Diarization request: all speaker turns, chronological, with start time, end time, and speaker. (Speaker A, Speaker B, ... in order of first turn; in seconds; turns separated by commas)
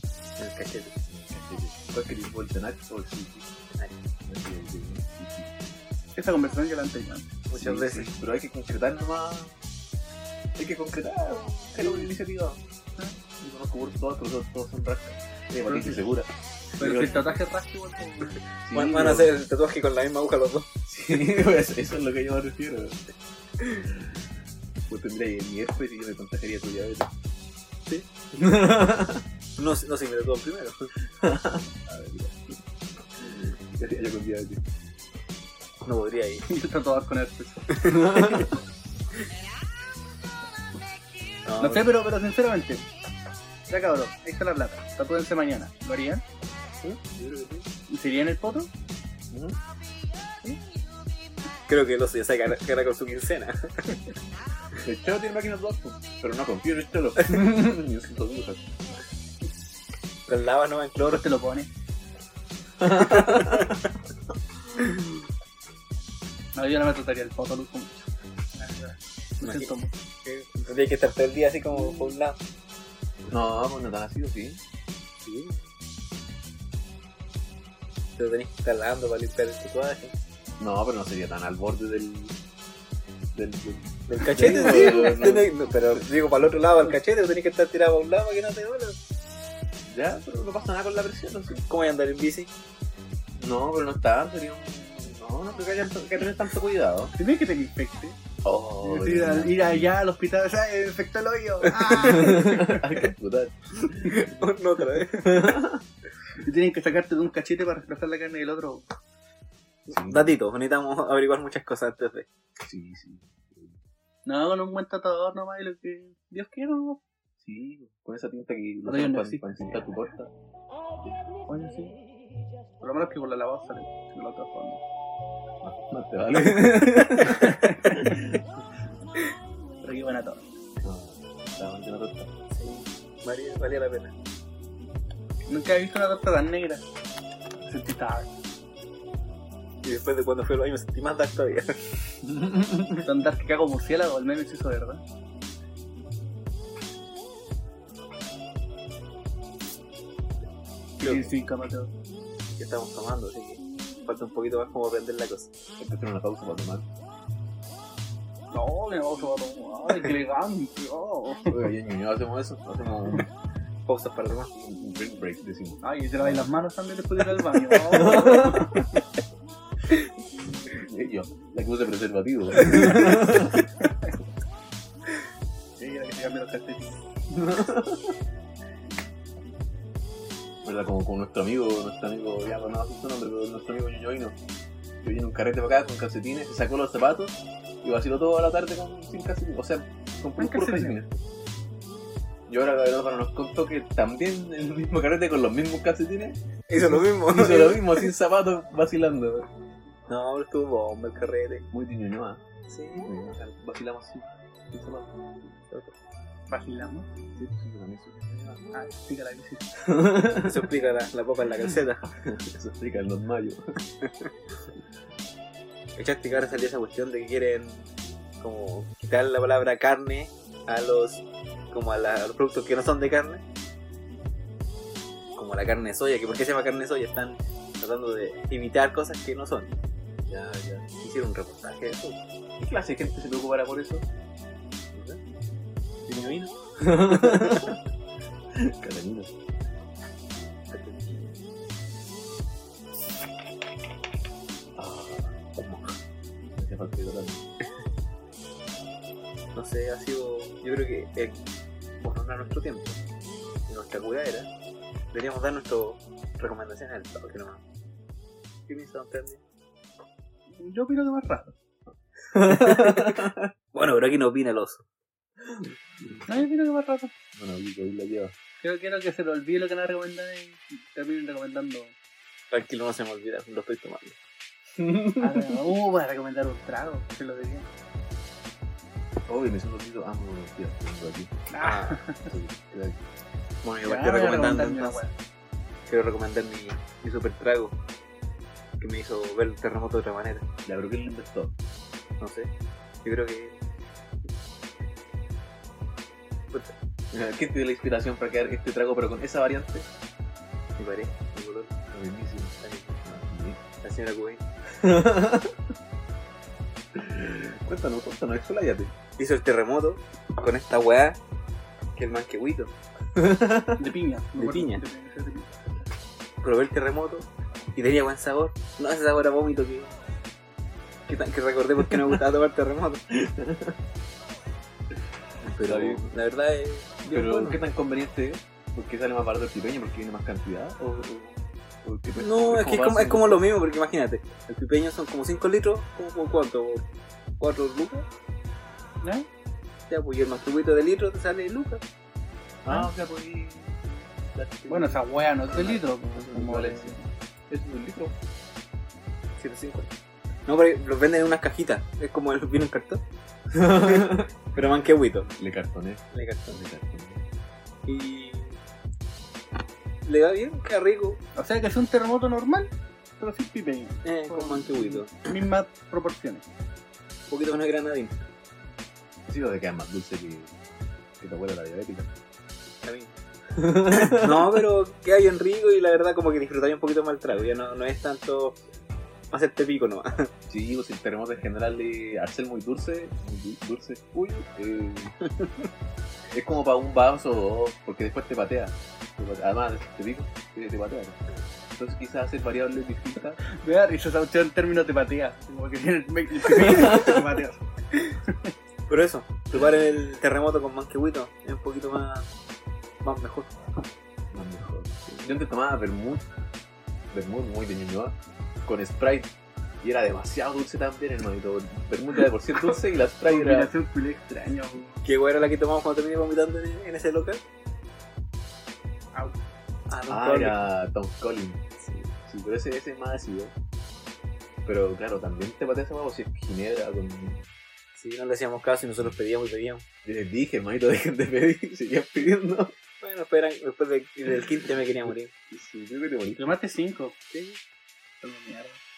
Speaker A: 0.4-0.9, Speaker B: 1.1-3.5, Speaker B: 4.2-5.6, Speaker C: 6.2-7.3, Speaker A: 7.5-8.1, Speaker B: 7.5-9.6, Speaker B: 10.6-12.6, Speaker B: 13.4-17.3, Speaker C: 15.7-16.0, Speaker C: 16.8-18.4, Speaker B: 18.6-19.3, Speaker A: 18.7-20.7, Speaker B: 20.9-23.0, Speaker B: 23.9-24.2, Speaker B: 24.9-27.1, Speaker B: 28.3-29.2, Speaker A: 29.6-30.9, Speaker B: 31.2-32.4, Speaker B: 33.2-34.6, Speaker A: 35.8-36.5, Speaker C: 36.5-37.8, Speaker A: 37.8-38.5, Speaker B: 37.9-38.5, Speaker A: 41.5-41.9, Speaker C: 41.6-42.9, Speaker C: 43.7-46.2, Speaker A: 47.0-47.5, Speaker B: 47.1-47.6, Speaker C: 47.9-48.7, Speaker B: 49.3-49.6, Speaker A: 51.7-54.0, Speaker B: 54.8-58.8, Speaker A: 60.3-61.2, Speaker C: 61.0-61.7, Speaker B: 62.8-63.7, Speaker A: 62.9-63.8, Speaker C: 66.5-69.9, Speaker A: 69.4-69.7, Speaker A: 70.2-72.4, Speaker B: 73.3-74.6, Speaker A: 75.2-75.6, Speaker A: 78.2-80.1, Speaker B: 80.6-82.4, Speaker B: 83.3-86.0, Speaker A: 84.1-89.0, Speaker C: 84.7-85.1, Speaker B: 89.9-91.6, Speaker A: 91.6-92.5, Speaker B: 93.4-97.1, Speaker C: 97.2-98.2, Speaker B: 98.5-100.0, Speaker C: 98.8-102.9, Speaker B: 101.9-104.3, Speaker A: 104.0-105.6, Speaker B: 105.1-105.8, Speaker C: 106.4-108.9, Speaker A: 109.9-112.3, Speaker B: 109.9-110.3, Speaker B: 112.6-113.8, Speaker C: 114.3-117.0, Speaker B: 117.4-120.3, Speaker C: 118.9-120.0, Speaker C: 121.5-122.0, Speaker C: 122.8-124.8, Speaker B: 125.6-128.4, Speaker C: 127.2-128.2, Speaker C: 129.8-130.5, Speaker B: 130.8-132.3, Speaker A: 132.5-134.1, Speaker C: 135.5-136.8, Speaker C: 137.6-138.3, Speaker A: 139.8-142.0, Speaker B: 142.2-143.1, Speaker C: 143.0-145.0, Speaker A: 151.0-151.3, Speaker C: 151.0-151.9, Speaker A: 152.6-155.5, Speaker B: 155.8-156.9, Speaker C: 158.5-161.6, Speaker B: 161.5-163.3, Speaker A: 163.9-164.5, Speaker B: 164.5-166.5, Speaker C: 165.8-169.0, Speaker B: 167.9-168.9, Speaker B: 170.7-173.7, Speaker A: 172.7-173.1, Speaker C: 175.8-177.0, Speaker B: 177.3-178.2, Speaker B: 180.6-184.4, Speaker B: 185.0-191.2, Speaker C: 190.4-191.0, Speaker B: 192.5-199.5, Speaker A: 196.7-198.1, Speaker A: 200.1-201.7, Speaker B: 201.7-202.4, Speaker A: 202.7-203.1, Speaker B: 203.0-205.2, Speaker C: 206.5-207.1, Speaker B: 207.3-208.7, Speaker C: 208.7-209.7, Speaker B: 209.8-210.7, Speaker A: 210.4-212.1, Speaker B: 211.7-213.6, Speaker A: 216.0-223.4, Speaker A: 225.4-229.7, Speaker B: 230.3-230.9, Speaker A: 231.0-232.2, Speaker B: 232.6-234.1, Speaker A: 234.9-235.2, Speaker A: 236.1-237.8, Speaker B: 236.8-237.8, Speaker B: 238.5-239.3, Speaker A: 240.7-241.4, Speaker B: 244.8-245.6, Speaker B: 246.6-247.4, Speaker A: 249.6-251.4, Speaker A: 252.0-253.0, Speaker A: 253.7-254.5, Speaker A: 255.1-257.6, Speaker A: 258.7-259.4, Speaker C: 260.5-261.6, Speaker B: 262.3-263.5, Speaker A: 262.4-264.8, Speaker C: 266.3-267.1, Speaker B: 267.3-268.3, Speaker C: 268.6-271.9, Speaker A: 272.5-274.2, Speaker B: 274.8-275.6, Speaker C: 275.2-277.7, Speaker B: 279.3-281.4, Speaker C: 281.5-282.3, Speaker A: 281.6-282.0, Speaker B: 282.3-283.0, Speaker A: 283.6-285.0, Speaker C: 283.8-285.1, Speaker A: 285.9-287.8, Speaker A: 288.8-290.5, Speaker B: 290.6-291.6, Speaker A: 292.2-292.5, Speaker A: 293.0-293.6, Speaker B: 297.1-299.9, Speaker A: 300.8-301.8, Speaker B: 301.9-303.6, Speaker A: 302.6-303.0, Speaker A: 303.8-304.4, Speaker B: 304.8-305.6, Speaker B: 306.9-308.9, Speaker A: 309.2-311.2, Speaker A: 312.0-312.7, Speaker B: 313.2-313.8, Speaker C: 313.8-315.7, Speaker A: 314.4-314.8, Speaker A: 316.4-320.0, Speaker A: 321.1-323.0, Speaker B: 321.9-322.2, Speaker B: 323.1-323.8, Speaker A: 325.4-327.6, Speaker B: 325.6-326.0, Speaker B: 327.1-333.4, Speaker A: 332.2-336.9, Speaker A: 337.4-338.1, Speaker C: 339.0-339.3, Speaker A: 339.9-341.8, Speaker B: 342.6-346.9, Speaker C: 344.7-347.1, Speaker B: 347.5-348.1, Speaker A: 349.4-349.9, Speaker A: 350.5-353.0, Speaker B: 353.5-354.6, Speaker A: 353.8-355.3, Speaker B: 355.4-357.2, Speaker A: 356.1-356.6, Speaker A: 357.9-358.6, Speaker A: 360.1-361.2, Speaker C: 361.4-366.5, Speaker A: 364.1-365.2, Speaker A: 367.3-368.2, Speaker B: 369.3-370.6, Speaker B: 371.2-372.1, Speaker A: 372.8-378.6, Speaker B: 373.6-374.6, Speaker A: 379.3-380.3, Speaker B: 380.5-385.1, Speaker B: 386.3-391.2, Speaker B: 391.8-393.4, Speaker C: 393.4-397.6, Speaker B: 396.5-397.2, Speaker A: 398.9-402.3, Speaker A: 403.0-403.6, Speaker B: 404.3-406.3, Speaker B: 407.1-409.3, Speaker B: 409.8-413.7, Speaker C: 413.2-415.0, Speaker A: 415.0-417.4, Speaker A: 419.9-420.6, Speaker B: 420.1-421.6, Speaker A: 421.8-422.1, Speaker B: 422.2-423.6, Speaker B: 424.6-427.5, Speaker A: 427.9-429.9, Speaker B: 430.1-432.7, Speaker A: 433.0-435.3, Speaker B: 435.5-436.6, Speaker C: 436.4-437.2, Speaker A: 437.3-437.6, Speaker C: 438.2-438.8